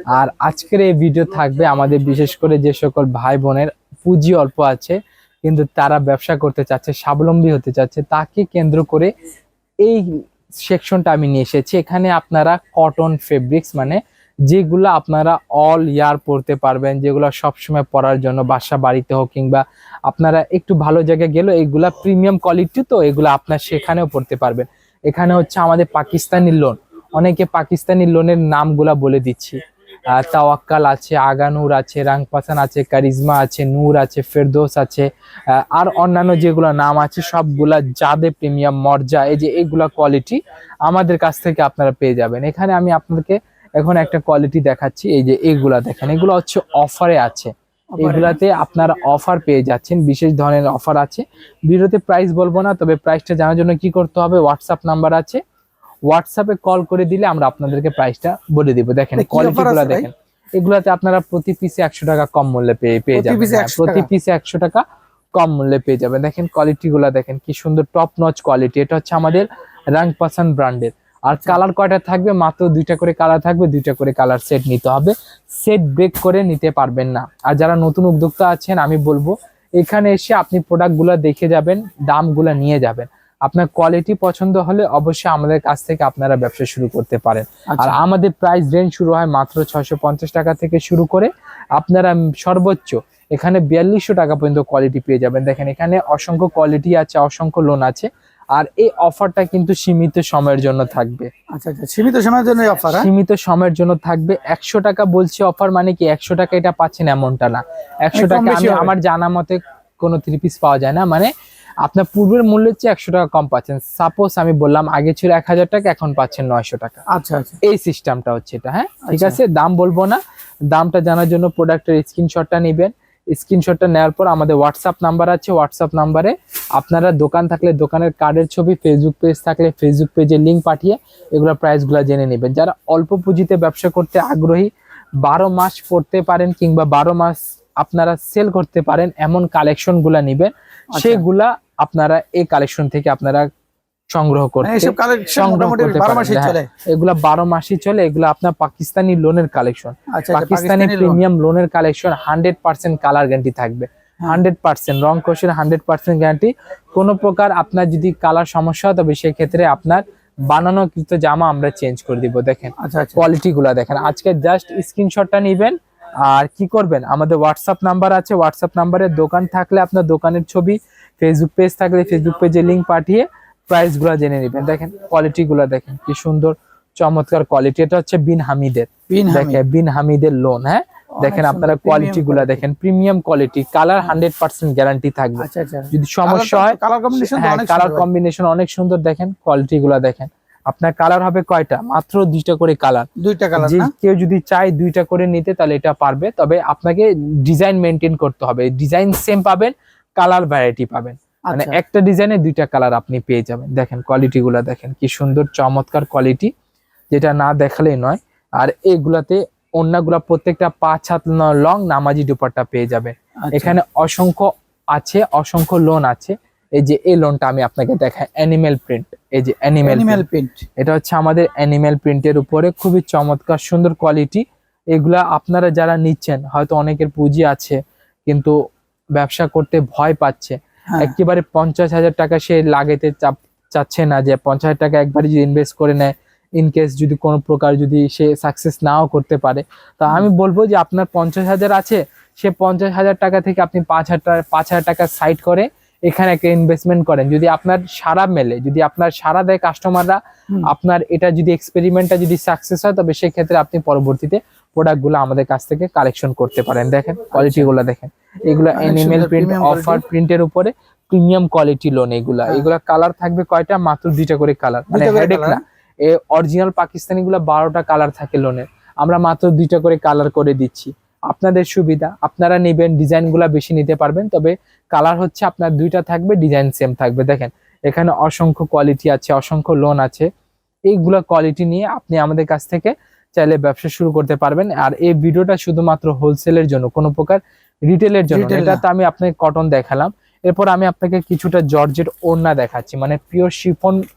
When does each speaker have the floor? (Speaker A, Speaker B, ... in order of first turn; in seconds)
Speaker A: 0.1-9.1, 10.7-55.4, 56.1-64.8, 65.3-101.3, 102.9-111.3, 111.8-117.0, 117.6-120.2, 120.7-134.7, 135.2-143.5, 144.1-206.5, 207.1-220.2, 220.8-228.5, 229.1-280.3, 280.9-294.0
Speaker B: 48.0-48.4, 59.2-60.1, 63.1-64.1, 87.7-88.0, 101.5-103.1, 108.1-108.9, 117.1-117.6, 119.1-119.4, 140.9-141.2, 144.6-146.7, 150.1-151.2, 162.8-163.2, 179.1-179.6, 181.2-182.6, 185.4-188.1, 193.2-193.9, 201.5-201.8, 213.4-213.8, 219.8-220.7, 257.3-257.7, 258.8-260.1, 264.9-265.6, 288.3-288.8